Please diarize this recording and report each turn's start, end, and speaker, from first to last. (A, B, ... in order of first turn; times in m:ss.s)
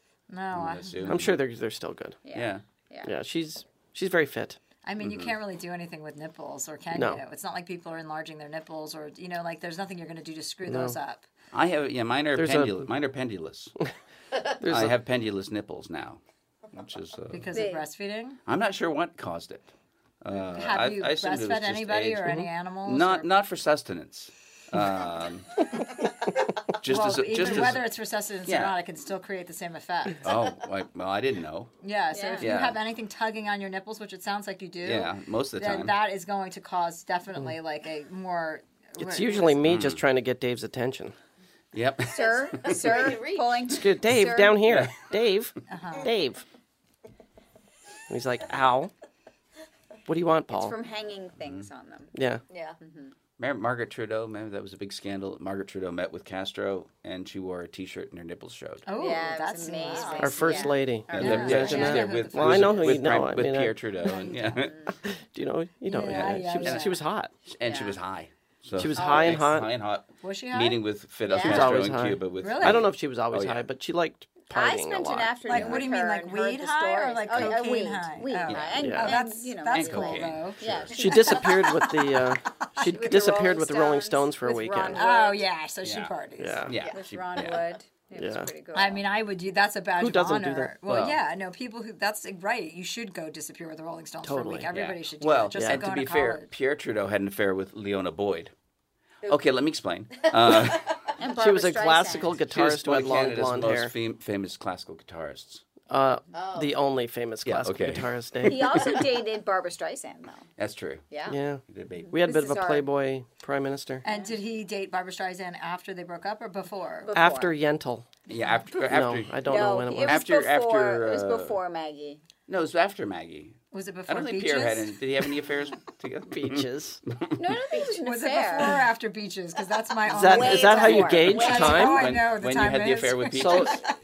0:00.3-0:01.1 A
0:00.5-0:01.4 B
0:01.0-0:02.2 C
0:02.2-0:03.1 D
0:02.3-0:02.6 B
0:03.0-0:04.6 C
0:04.8-0:11.2 A
0:05.0-0:05.3 B
0:06.9-0:07.2 C
0:10.7-0:11.0 C
0:11.5-0:13.8 B
0:12.4-0:12.9 C
0:14.5-0:15.0 C
0:14.6-0:16.2 B
0:16.7-0:17.5 B
0:17.3-0:18.4 A
0:17.5-0:17.8 D
0:18.5-0:19.7 B
0:20.2-0:25.6 B
0:20.6-0:23.3 A
0:26.7-0:27.8 B
0:26.9-0:30.2 A
0:28.5-0:28.8 B
0:30.2-0:31.7 B
0:31.8-0:39.6 A
0:32.1-0:32.5 D
0:32.4-0:32.8 B
0:34.8-0:36.0 B
0:39.0-0:41.2 C
0:39.6-0:40.0 B
0:41.7-0:42.8 B
0:42.1-0:43.7 E
0:42.1-0:44.7 D
0:43.7-0:46.4 C
0:44.7-0:45.0 B
0:45.7-0:46.1 A
0:48.1-0:48.9 C
0:50.1-0:50.8 C
0:50.5-0:52.1 D
0:52.2-0:52.4 C
0:52.5-0:52.8 E
0:52.8-0:53.1 D
0:53.4-0:58.9 B
0:58.9-1:02.8 A
0:59.0-1:02.0 D
0:59.8-1:00.3 E
1:00.2-1:03.8 C
1:01.1-1:04.9 B
1:04.0-1:05.0 D
1:05.0-1:07.3 C
1:05.9-1:07.0 A
1:06.1-1:06.9 B
1:07.5-1:13.7 B
1:07.7-1:08.0 E
1:08.8-1:09.7 C
1:09.0-1:09.4 E
1:10.2-1:10.8 A
1:11.3-1:11.8 D
1:11.4-1:15.7 C
1:12.4-1:12.9 A
1:14.5-1:21.6 D
1:15.5-1:22.2 A
1:18.5-1:19.0 B
1:18.8-1:19.2 C
1:19.7-1:21.1 B
1:20.9-1:25.0 C
1:22.8-1:25.4 D
1:25.0-1:26.7 A
1:25.8-1:26.1 B
1:26.4-1:26.8 C
1:26.7-1:27.6 B
1:26.9-1:29.0 D
1:28.2-1:28.5 C
1:28.7-1:36.5 A
1:30.0-1:30.7 C
1:30.9-1:31.2 B
1:34.2-1:34.7 C
1:34.7-1:38.5 B
1:35.6-1:35.8 C
1:39.3-1:41.0 B
1:40.2-1:41.1 E
1:41.2-1:42.4 D
1:41.3-1:43.9 C
1:42.4-1:45.6 B
1:45.9-1:49.0 C
1:46.3-1:46.8 E
1:47.4-1:48.1 B
1:48.4-1:50.5 D
1:50.6-1:51.0 B
1:51.1-1:51.4 D
1:51.3-1:54.0 C
1:51.7-1:52.2 B
1:52.0-1:52.9 D
1:54.0-1:57.1 A
1:57.0-1:57.5 D
1:57.1-1:58.1 C
1:58.3-2:01.6 B
1:58.9-2:00.2 C
1:59.4-2:02.2 D
2:02.5-2:07.4 B
2:03.7-2:05.0 A
2:06.3-2:07.0 C
2:07.4-2:08.8 D
2:08.0-2:13.9 A
2:10.1-2:12.1 C
2:10.1-2:11.9 D
2:10.9-2:13.8 B
2:13.3-2:13.8 C